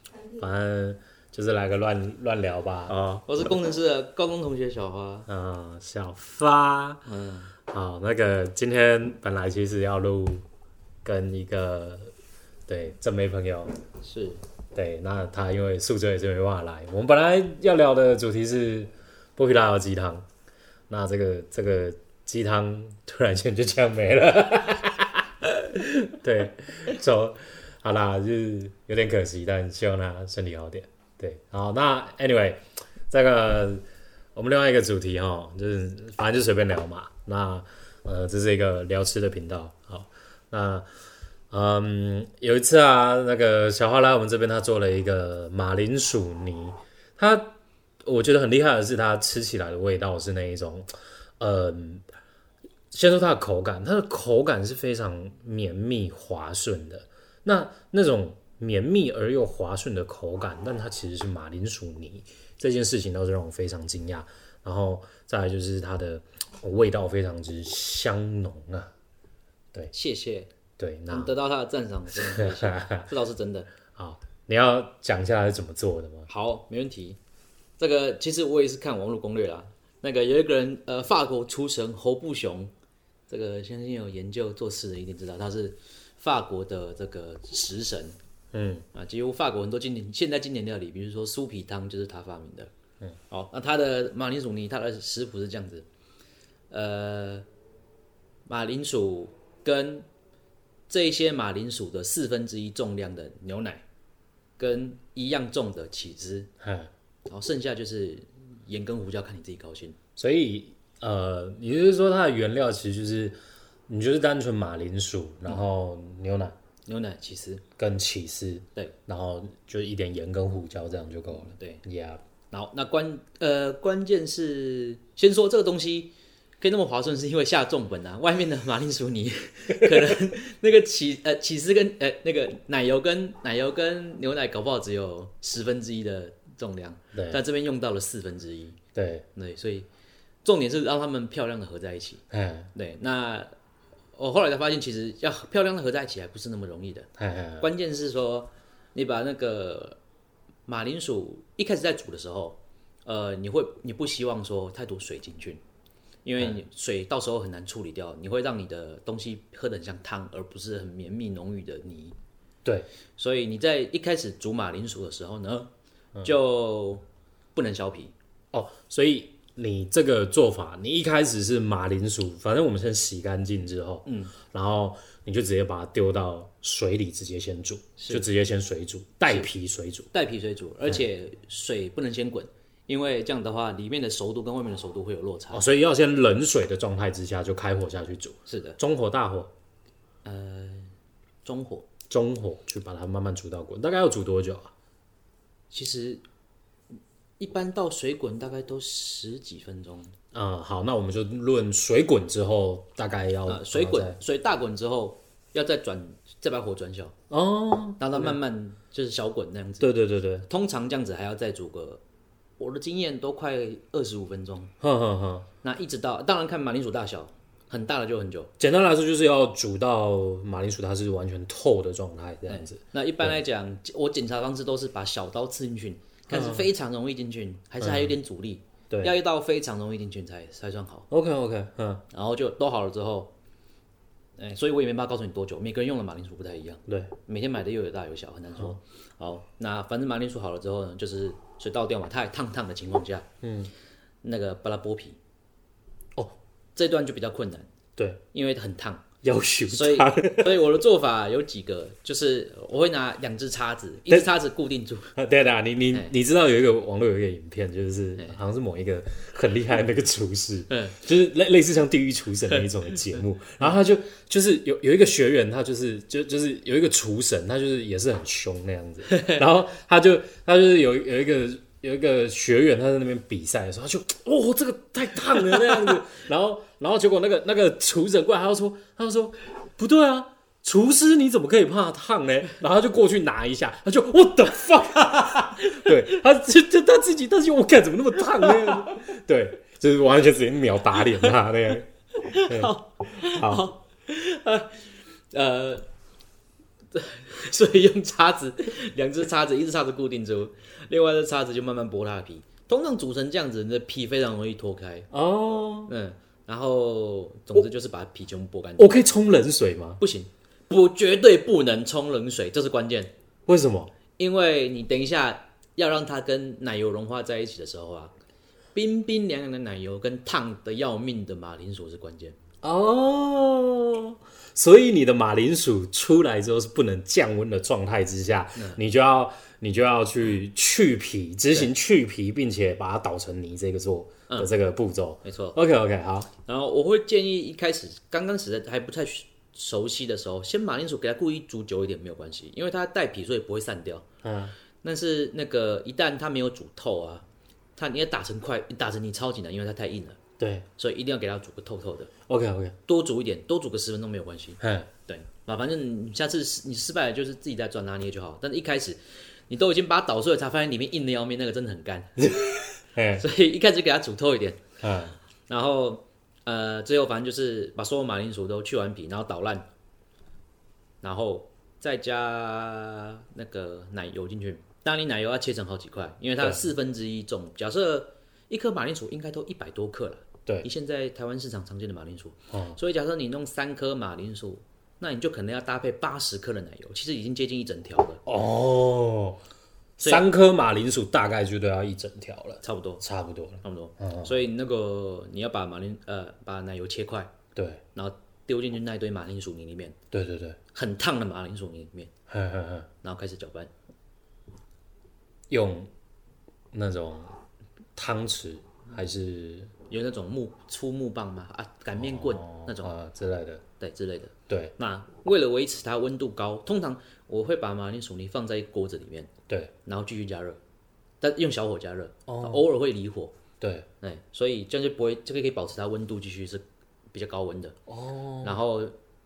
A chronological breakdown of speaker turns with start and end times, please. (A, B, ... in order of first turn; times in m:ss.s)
0:00.3-0:03.2 A
0:03.2-0:05.3 B
0:05.3-0:07.0 A
0:07.0-0:07.5 B
0:07.7-0:10.4 A
0:11.0-0:12.1 A
0:12.7-0:13.7 A
0:14.0-0:14.4 B
0:14.7-0:20.2 A
0:20.9-0:33.8 A
0:34.3-0:40.9 A
0:41.5-0:52.0 A
0:52.9-1:08.9 A
1:09.9-1:10.5 B
1:10.8-1:11.3 A
1:11.1-1:13.7 B
1:12.4-1:13.0 A
1:14.0-1:16.3 A
1:16.3-1:17.2 B
1:17.8-1:22.7 B
1:23.3-1:28.1 B
1:28.5-1:28.8 A
1:28.9-1:32.7 B
1:33.3-1:35.9 B
1:36.7-1:37.4 B
1:38.5-1:40.1 B
1:40.9-1:43.8 B
1:44.6-1:46.5 B
1:46.6-1:46.9 A
1:47.3-1:50.0 B
1:50.2-1:53.4 A
1:53.9-1:56.5 A
1:56.8-1:57.6 B
1:57.8-2:02.2 A
2:01.3-2:01.8 B
2:02.5-2:18.8 B
2:17.1-2:17.4 A
2:18.9-2:19.2 A
2:19.3-2:19.9 B
2:20.4-2:23.5 B
2:22.3-2:22.7 A
2:24.2-2:27.1 B
2:27.2-2:27.7 A
2:27.6-2:30.0 B
2:30.7-2:35.6 B
2:36.2-2:42.2 B
2:43.2-2:45.7 B
2:46.2-2:47.0 B
2:47.5-2:48.1 B
2:48.5-3:00.1 A
2:54.1-2:54.3 B
2:58.0-2:58.3 B
3:00.1-3:05.7 B
3:05.5-3:09.5 A
3:08.5-3:08.8 B
3:10.2-3:10.9 B
3:11.4-3:11.9 B
3:12.1-3:14.7 A
3:15.7-3:16.2 B
3:17.4-3:20.1 B
3:20.3-3:24.2 A
3:23.4-3:27.2 B
3:27.3-3:28.4 A
3:28.0-3:32.0 B
3:29.8-3:30.4 A
3:32.6-3:34.7 B
3:34.8-3:35.5 A
3:35.6-3:38.5 B
3:38.6-3:43.4 A
3:42.5-3:51.1 B
3:46.3-3:46.7 A
3:47.8-3:48.2 A
3:51.1-3:52.0 A
3:52.1-3:53.3 B
3:54.4-4:03.2 B
3:56.9-3:57.1 A
4:03.4-4:03.7 A
4:04.2-4:05.2 B
4:06.8-4:07.7 B
4:08.3-4:09.1 B
4:09.2-4:10.6 A
4:09.7-4:15.1 B
4:15.2-4:53.6 A
4:20.7-4:21.0 B
4:22.6-4:23.0 B
4:29.1-4:29.4 B
4:45.6-4:45.9 B
4:52.2-4:54.8 B
4:55.3-4:55.9 B
4:56.9-5:05.1 B
5:05.1-5:05.9 A
5:05.9-5:09.0 B
5:08.8-5:10.0 A
5:10.0-5:13.1 B
5:13.5-5:13.9 A
5:14.2-5:18.1 B
5:18.7-5:22.4 B
5:22.6-5:36.3 A
5:35.2-5:35.6 B
5:36.4-5:44.0 B
5:44.2-5:44.6 A
5:44.8-5:47.2 B
5:47.8-5:50.2 B
5:50.4-5:50.6 A
5:50.8-5:52.1 B
5:52.3-5:52.8 A
5:52.8-6:02.3 B
5:54.6-5:54.9 A
6:02.2-6:03.2 A
6:03.2-6:04.6 B
6:04.8-6:05.2 A
6:05.5-6:09.7 B
6:11.0-6:28.2 B
6:16.4-6:16.6 A
6:22.5-6:22.8 A
6:28.2-6:29.4 A
6:30.0-6:30.3 B
6:30.0-6:34.4 A
6:32.6-6:33.0 B
6:33.6-6:37.3 B
6:37.6-6:37.8 A
6:37.9-6:40.0 B
6:40.1-6:40.6 A
6:40.7-6:42.1 B
6:42.3-6:42.9 A
6:43.0-6:43.7 B
6:45.5-6:45.9 A
6:46.7-6:47.4 A
6:47.9-6:49.7 A
6:49.9-6:52.9 B
6:51.9-6:53.6 A
6:53.8-6:59.3 B
6:59.8-7:00.6 B
7:01.2-7:03.3 B
7:02.3-7:02.6 A
7:03.6-7:03.9 A
7:04.0-7:07.8 B
7:07.9-7:08.6 A
7:08.4-7:08.9 B